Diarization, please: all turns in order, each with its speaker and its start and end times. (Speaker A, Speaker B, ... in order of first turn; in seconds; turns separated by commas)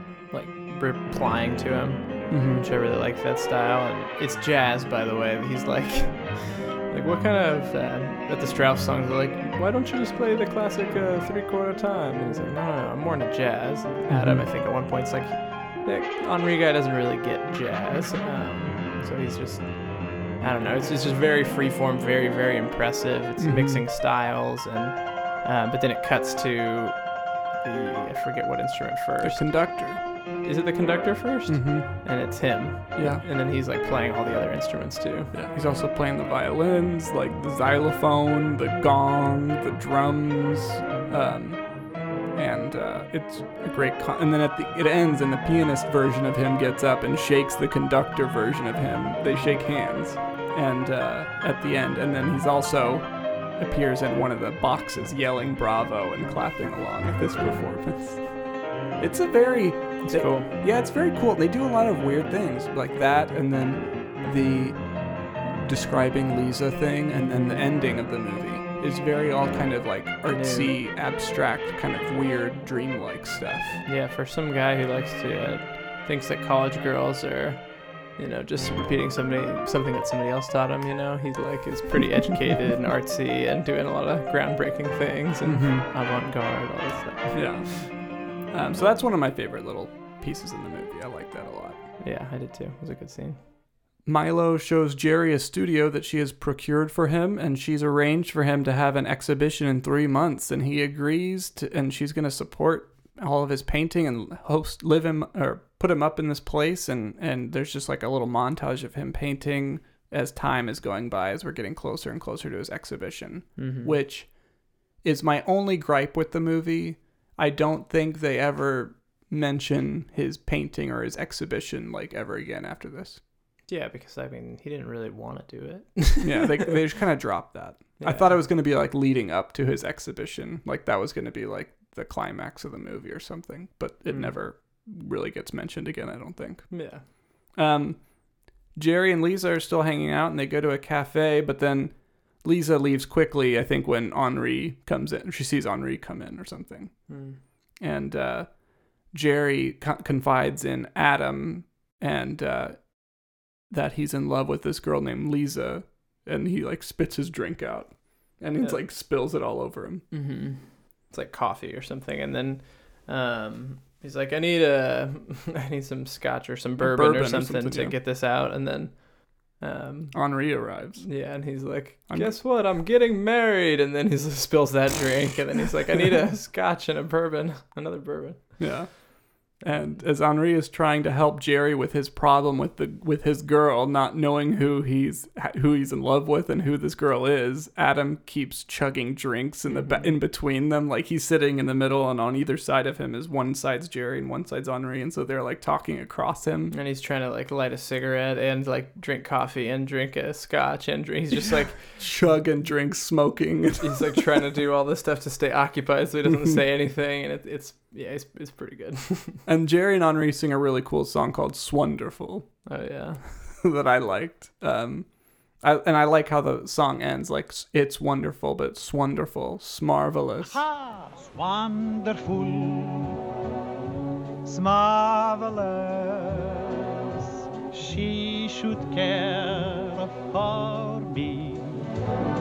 Speaker A: 0.3-35.3, Speaker B: 2.3-2.6, Speaker B: 14.1-14.5, Speaker B: 23.4-23.8, Speaker B: 29.2-30.0, Speaker B: 31.5-33.2, Speaker B: 35.3-73.8, Speaker A: 60.0-60.5, Speaker A: 70.3-70.7, Speaker A: 73.8-87.9, Speaker B: 85.5-85.8, Speaker B: 87.3-91.9, Speaker A: 92.0-93.4, Speaker B: 94.0-123.2, Speaker A: 113.6-114.0, Speaker A: 123.7-126.7, Speaker B: 126.2-160.1, Speaker A: 128.0-128.4, Speaker A: 134.1-134.4, Speaker A: 136.7-137.1, Speaker A: 147.1-147.4, Speaker A: 158.6-158.8, Speaker A: 160.1-178.9, Speaker B: 166.8-168.0, Speaker B: 170.1-172.4, Speaker B: 178.6-196.7, Speaker A: 179.6-180.0, Speaker A: 189.7-190.1, Speaker A: 196.7-202.1, Speaker B: 202.0-204.2, Speaker A: 203.8-209.4, Speaker B: 209.4-212.8, Speaker A: 212.7-213.2, Speaker B: 213.4-220.6, Speaker C: 220.4-223.1, Speaker C: 224.4-226.8, Speaker C: 227.7-231.8